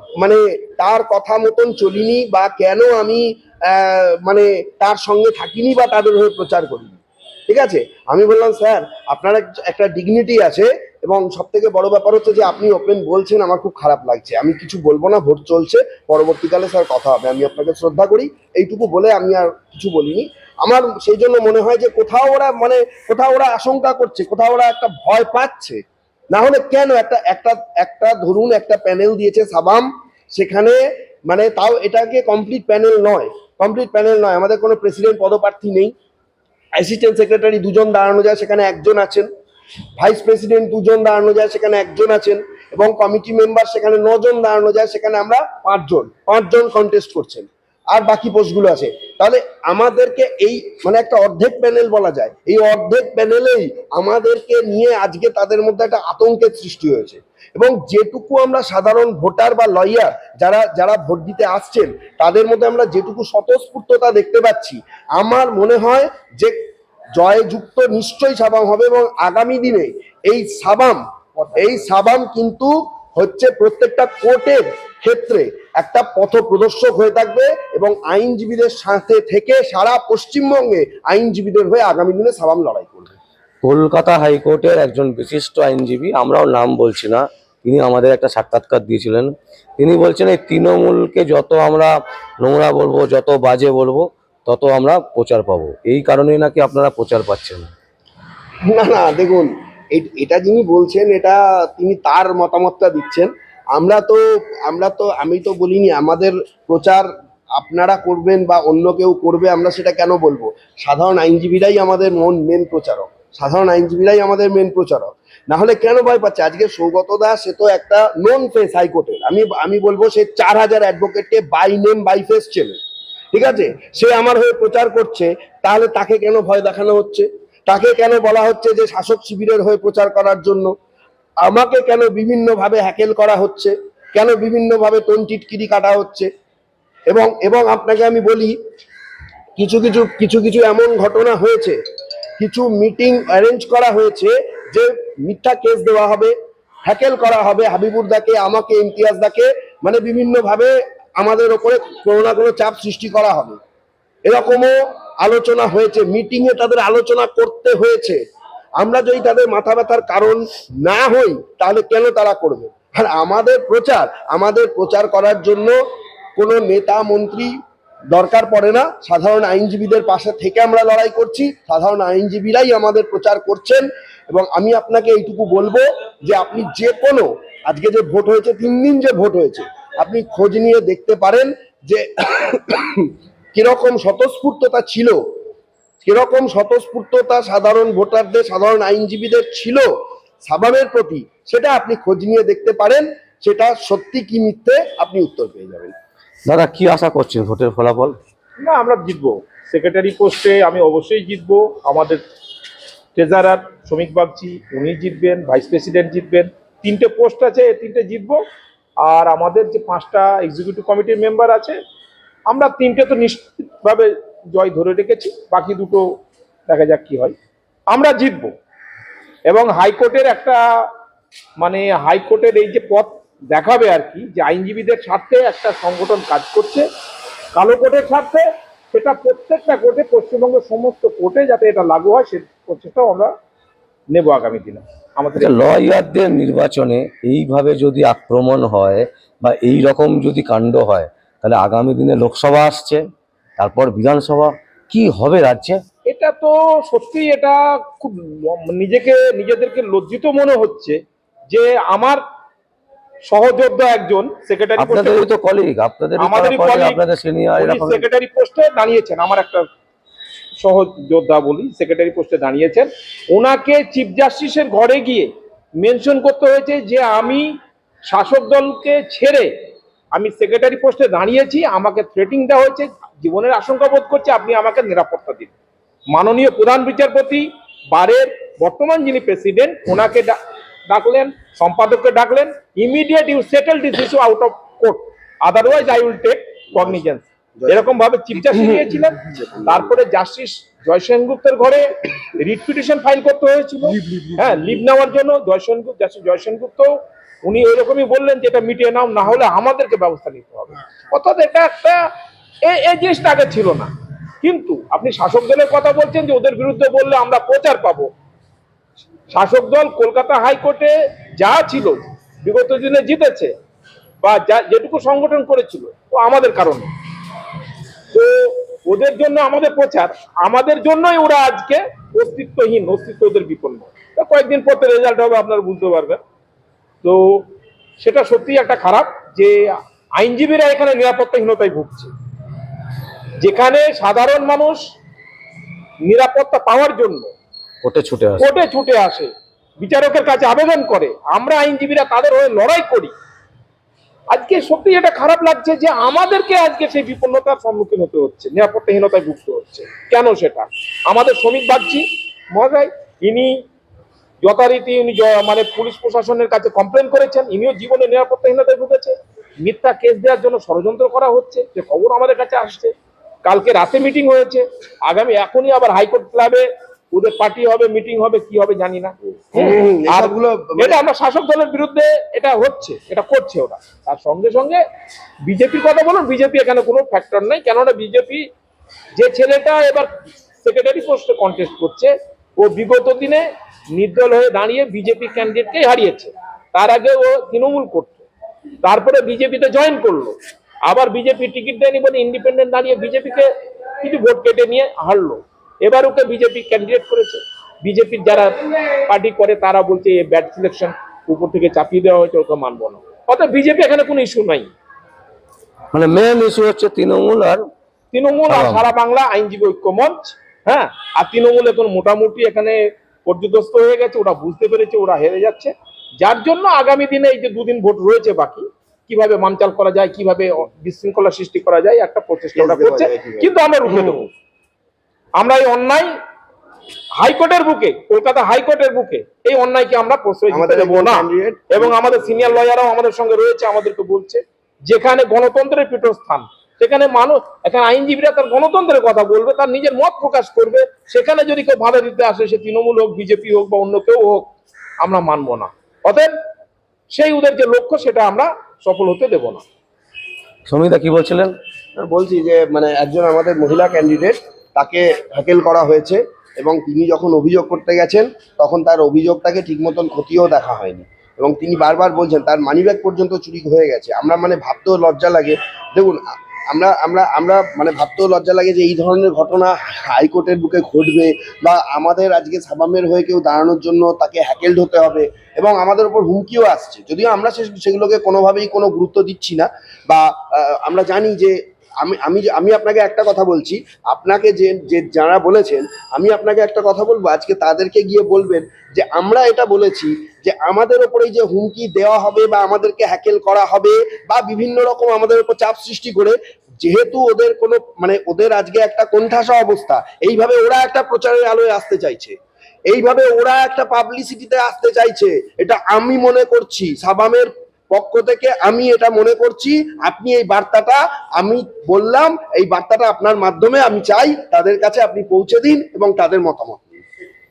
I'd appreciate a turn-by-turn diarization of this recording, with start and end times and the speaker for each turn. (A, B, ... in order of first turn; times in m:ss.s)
0:00.2-0:35.9 A
0:36.8-0:39.3 A
0:40.0-1:06.6 A
1:07.2-1:11.0 A
1:11.5-1:23.2 A
1:23.6-1:37.7 B
1:38.7-1:47.1 A
1:47.6-2:02.8 A
2:03.3-2:10.7 A
2:11.4-2:16.3 A
2:17.1-2:18.5 A
2:19.6-2:21.8 A
2:22.4-2:26.3 A
2:26.8-2:33.6 A
2:34.2-2:38.2 A
2:38.8-2:45.8 A
2:46.4-2:47.5 A
2:48.1-3:05.2 A
3:06.0-3:09.9 A
3:10.4-3:15.9 A
3:16.5-3:18.2 B
3:18.6-3:22.2 C
3:23.1-3:28.4 C
3:29.0-3:31.8 C
3:32.5-3:36.0 C
3:36.7-3:37.3 C
3:37.9-3:38.5 C
3:39.5-3:40.6 C
3:41.6-3:46.8 C
3:47.5-3:53.3 C
3:54.1-3:55.6 C
3:55.4-4:03.0 B
4:03.6-4:05.8 B
4:06.0-4:12.2 C
4:13.2-4:15.2 C
4:14.8-4:18.0 B
4:16.2-4:17.0 C
4:17.5-4:19.6 C
4:20.6-4:27.5 C
4:28.0-4:29.5 C
4:30.1-4:35.5 C
4:36.1-5:02.1 C
4:47.6-4:47.8 A
4:48.5-4:49.9 A
5:02.6-5:08.1 C
5:09.3-5:13.5 C
5:14.2-5:16.9 C
5:18.1-5:26.2 C
5:27.0-5:27.4 C
5:28.0-5:32.1 C
5:33.4-5:34.8 C
5:36.0-5:37.3 C
5:37.8-5:38.4 B
5:38.4-5:43.1 C
5:44.3-5:53.6 C
5:54.4-6:02.9 C
6:03.4-6:14.8 C
6:09.5-6:11.0 A
6:15.4-6:18.4 C
6:19.2-6:28.2 C
6:28.8-6:33.5 C
6:34.0-6:44.7 C
6:45.9-6:47.6 B
6:48.1-7:04.3 C
6:48.5-6:48.8 B
7:02.6-7:04.3 A
7:05.4-7:06.1 C
7:07.2-7:24.5 C
7:10.5-7:12.6 A
7:25.0-7:26.3 C
7:27.1-7:29.6 C
7:30.7-7:31.5 B
7:32.0-8:22.3 A
8:22.9-8:37.0 A